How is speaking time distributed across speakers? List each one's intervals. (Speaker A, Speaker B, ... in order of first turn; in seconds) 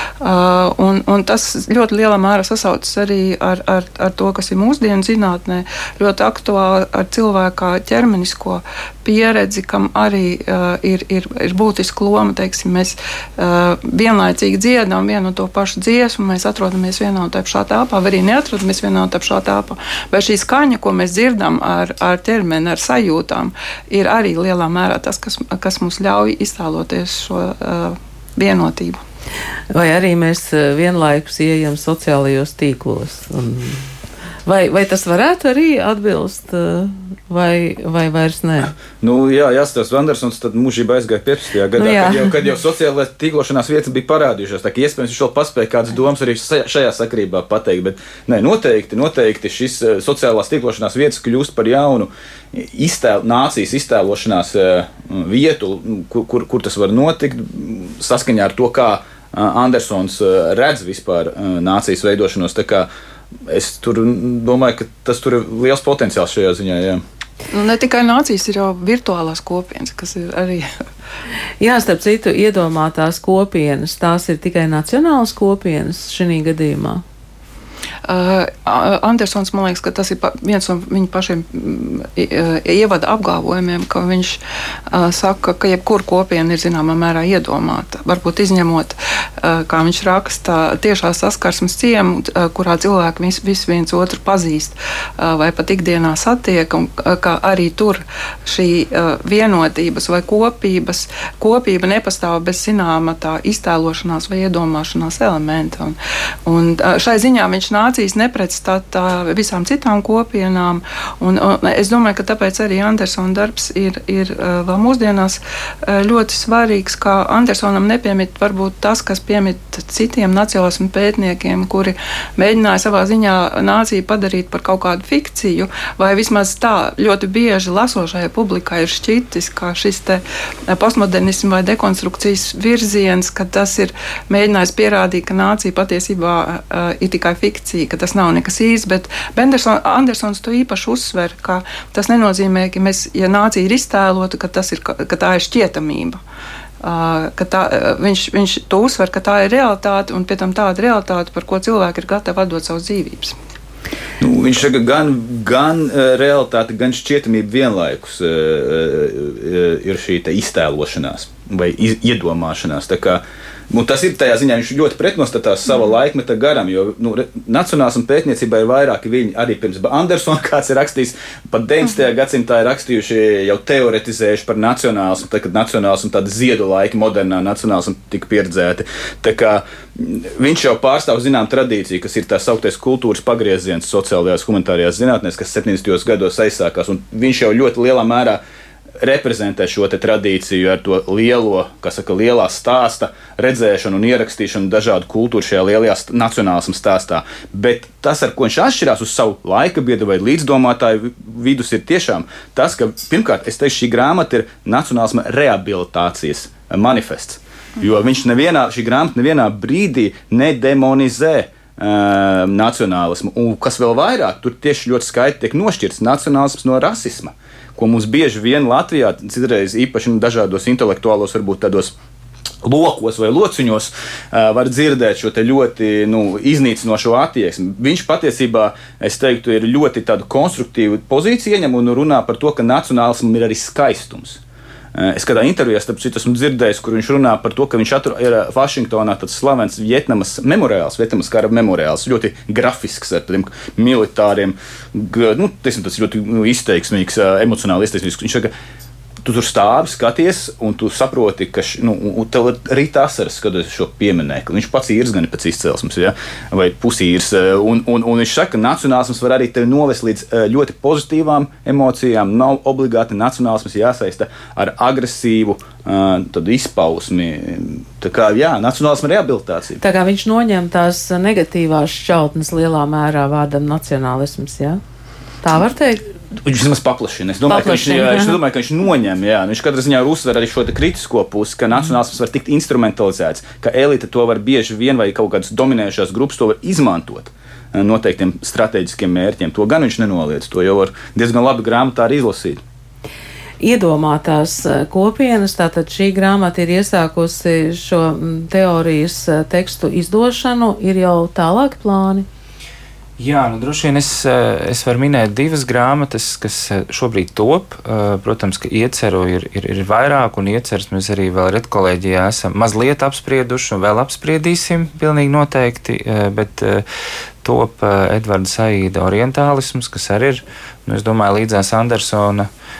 Speaker A: 0.2-29.0, 67.5-70.7, 78.0-146.2, 146.8-153.3
Speaker B: 29.7-33.8, 34.5-38.7, 41.8-42.3, 71.6-77.0, 269.8-274.8, 275.4-276.0, 277.5-278.4, 293.6-302.3
Speaker C: 39.0-62.9, 63.5-67.0, 154.2-188.4, 189.0-221.9, 222.6-234.4, 234.9-248.5, 249.2-269.8, 276.3-292.6
Speaker D: 303.2-316.8, 317.4-322.5